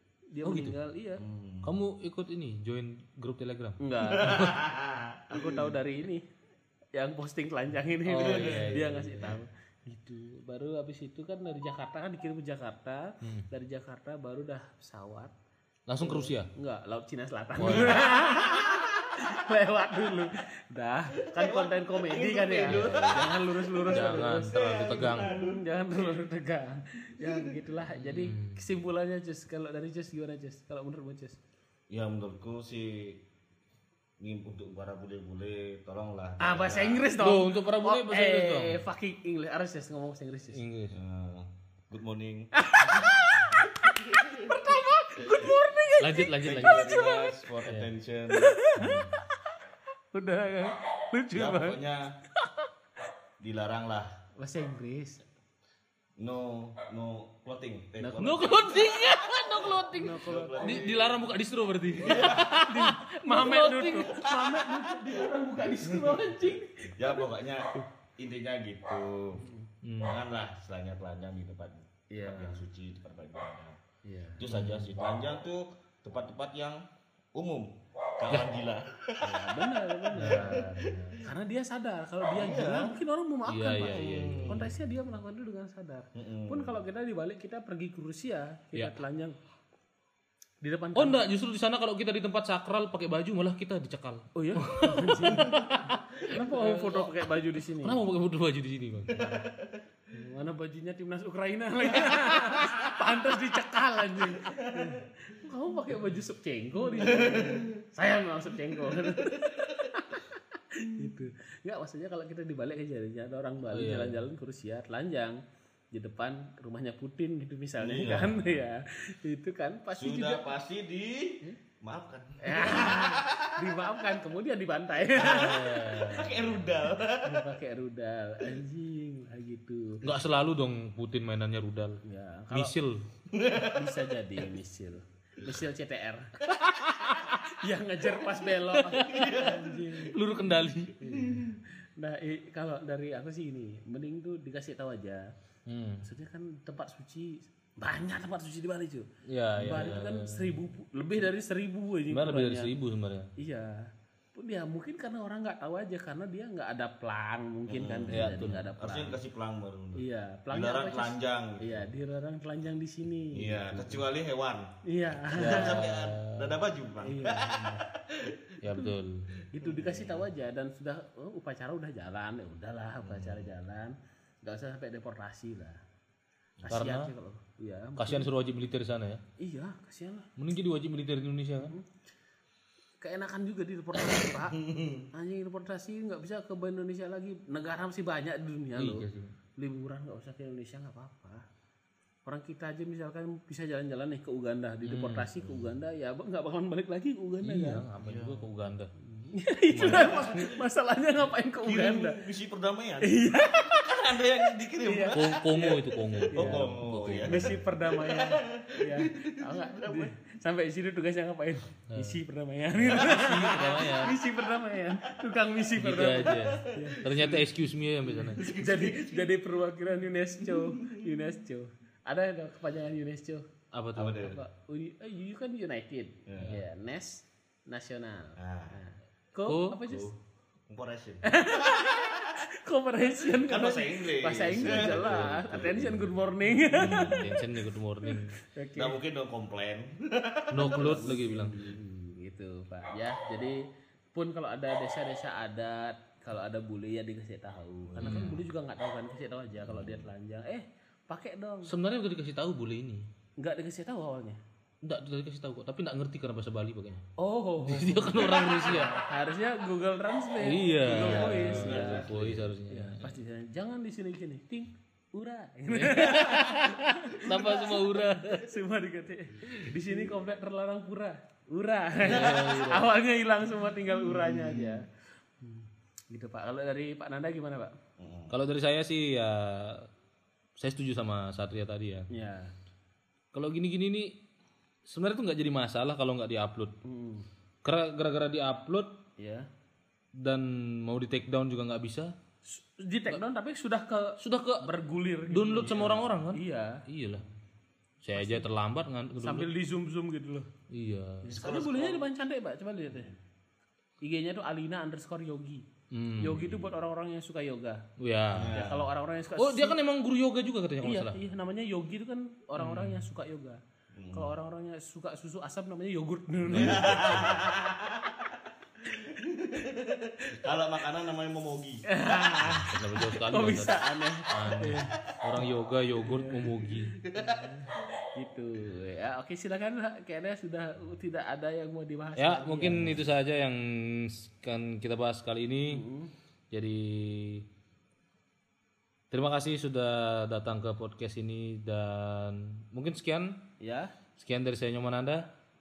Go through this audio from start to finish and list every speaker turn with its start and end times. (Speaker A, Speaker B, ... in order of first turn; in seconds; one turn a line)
Speaker A: 0.3-1.2
Speaker B: 0.4-0.8
Speaker C: 1.2-1.7
Speaker B: 1.6-4.6
Speaker A: 3.8-4.5
Speaker C: 4.1-5.7
Speaker A: 5.3-6.2
Speaker A: 7.0-15.3
Speaker B: 8.1-9.4
Speaker C: 8.2-9.3
Speaker B: 13.2-13.5
Speaker B: 15.9-16.5
Speaker A: 16.0-31.4
Speaker B: 17.6-18.0
Speaker C: 17.7-18.0
Speaker C: 21.2-26.3
Speaker B: 22.7-22.9
Speaker B: 23.9-25.3
Speaker C: 27.2-27.5
Speaker B: 27.9-28.6
Speaker C: 31.9-33.2
Speaker C: 34.2-37.1
Speaker A: 36.4-40.6
Speaker B: 37.2-38.9
Speaker B: 40.5-41.0
Speaker C: 40.9-43.2
Speaker A: 42.6-47.4
Speaker C: 43.9-44.8
Speaker B: 46.0-47.0
Speaker C: 46.4-49.1
Speaker B: 47.6-47.9
Speaker A: 48.3-49.2
Speaker A: 50.1-51.8
Speaker C: 51.3-52.1
Speaker A: 52.4-52.7
Speaker C: 53.4-54.1
Speaker A: 54.4-55.2
Speaker C: 56.2-58.9
Speaker A: 58.0-60.9
Speaker B: 58.2-64.2
Speaker C: 60.1-61.3
Speaker C: 62.0-62.5
Speaker A: 62.0-67.3
Speaker C: 64.1-65.3
Speaker C: 65.8-69.5
Speaker B: 69.8-70.2
Speaker C: 70.0-73.8
Speaker A: 72.1-72.6
Speaker A: 74.0-74.4
Speaker C: 74.4-76.8
Speaker B: 74.5-74.9
Speaker C: 77.3-79.5
Speaker A: 79.2-89.3
Speaker C: 80.1-81.2
Speaker B: 80.2-80.7
Speaker C: 82.3-83.0
Speaker B: 83.5-84.7
Speaker C: 83.9-84.7
Speaker C: 86.2-86.8
Speaker A: 90.6-91.3
Speaker B: 91.0-99.5
Speaker A: 94.3-98.0
Speaker C: 99.2-99.8
Speaker A: 100.1-115.4
Speaker C: 104.5-104.9
Speaker C: 107.0-107.7
Speaker B: 113.7-114.2
Speaker A: 115.9-120.5
Speaker C: 117.8-118.7
Speaker C: 119.9-123.6
Speaker A: 122.4-130.0
Speaker B: 125.2-126.4
Speaker C: 125.2-127.5
Speaker B: 130.0-132.0
Speaker A: 132.0-132.8
Speaker B: 132.5-133.0
Speaker C: 133.3-134.0
Speaker A: 133.6-136.3
Speaker B: 136.8-137.4
Speaker A: 137.4-140.2
Speaker C: 138.9-140.1
Speaker B: 140.0-141.0
Speaker A: 141.0-145.2
Speaker C: 141.2-141.6
Speaker B: 145.7-146.1
Speaker A: 146.0-149.1
Speaker B: 149.3-150.6
Speaker A: 149.6-152.7
Speaker B: 152.1-153.3
Speaker A: 153.4-153.8
Speaker A: 154.3-159.2
Speaker C: 157.7-161.9
Speaker B: 158.1-158.7
Speaker A: 160.0-164.1
Speaker C: 163.3-168.4
Speaker A: 164.8-165.8
Speaker B: 165.3-166.6
Speaker A: 167.0-167.9
Speaker B: 168.6-169.3
Speaker A: 168.6-169.0
Speaker C: 169.4-170.3
Speaker A: 169.5-175.8
Speaker C: 173.0-173.5
Speaker C: 176.6-176.9
Speaker A: 176.7-178.3
Speaker B: 176.7-177.1
Speaker B: 178.0-179.2
Speaker A: 179.4-180.3
Speaker B: 180.4-181.7
Speaker A: 181.6-181.9
Speaker A: 183.0-184.6
Speaker C: 184.6-185.1
Speaker A: 185.1-189.1
Speaker B: 188.8-189.3
Speaker A: 189.6-191.4
Speaker A: 192.2-197.9
Speaker B: 194.8-195.3
Speaker C: 195.4-195.7
Speaker B: 197.4-198.9
Speaker C: 198.0-198.5
Speaker A: 199.0-202.2
Speaker B: 199.7-200.6
Speaker C: 199.8-200.3
Speaker C: 201.6-210.1
Speaker A: 203.0-203.9
Speaker A: 204.8-205.7
Speaker B: 205.1-207.4
Speaker A: 206.3-217.0
Speaker B: 211.9-212.2
Speaker B: 212.8-214.1
Speaker B: 215.8-218.4
Speaker C: 216.6-217.5
Speaker C: 218.0-219.3
Speaker A: 218.5-223.4
Speaker C: 220.4-221.1
Speaker B: 223.7-224.3
Speaker C: 224.0-224.4
Speaker A: 224.2-230.1
Speaker C: 226.3-226.6
Speaker B: 226.4-226.6
Speaker C: 228.4-228.8
Speaker B: 229.5-229.8
Speaker C: 229.9-230.1
Speaker C: 230.7-231.4
Speaker A: 231.2-239.0
Speaker C: 233.2-237.3
Speaker B: 234.6-235.4
Speaker B: 236.7-238.4
Speaker C: 238.8-241.8
Speaker B: 240.5-241.6
Speaker A: 240.6-243.6
Speaker A: 244.1-251.7
Speaker C: 247.9-248.4
Speaker B: 248.0-248.4
Speaker C: 249.6-250.1
Speaker B: 251.7-253.1
Speaker A: 253.4-254.4
Speaker B: 254.8-257.0
Speaker A: 257.2-262.1
Speaker B: 257.6-259.0
Speaker B: 260.4-263.2
Speaker C: 260.9-262.5
Speaker A: 262.7-274.9
Speaker B: 265.7-268.4
Speaker B: 272.0-272.9
Speaker A: 275.4-277.7
Speaker C: 278.0-278.4
Speaker B: 278.3-279.9
Speaker B: 280.6-282.1
Speaker A: 282.1-282.5
Speaker B: 283.3-284.1
Speaker B: 284.9-286.7
Speaker A: 286.8-287.3
Speaker B: 287.6-289.0
Speaker A: 289.2-289.5
Speaker B: 290.2-292.1
Speaker A: 292.4-296.8
Speaker B: 294.2-294.6
Speaker B: 295.3-297.2
Speaker C: 295.6-296.1
Speaker B: 298.0-299.5
Speaker A: 298.1-298.5
Speaker A: 299.2-300.5
Speaker B: 300.7-301.3
Speaker A: 301.2-303.1
Speaker C: 301.3-302.1
Speaker A: 304.0-305.6
Speaker B: 305.9-306.4
Speaker A: 306.2-307.8
Speaker C: 306.3-306.8
Speaker B: 308.0-308.6
Speaker C: 308.3-308.9
Speaker A: 308.5-309.8
Speaker B: 309.4-311.2
Speaker A: 310.8-313.6
Speaker B: 312.6-313.1
Speaker C: 314.0-314.4
Speaker A: 314.1-317.4
Speaker B: 316.5-317.4
Speaker C: 316.5-321.9
Speaker A: 321.9-325.0
Speaker B: 322.5-327.0
Speaker A: 326.0-333.0
Speaker B: 332.2-335.8
Speaker A: 335.7-336.1
Speaker B: 336.5-337.4
Speaker B: 339.1-343.5
Speaker A: 343.6-343.9
Speaker B: 344.2-345.3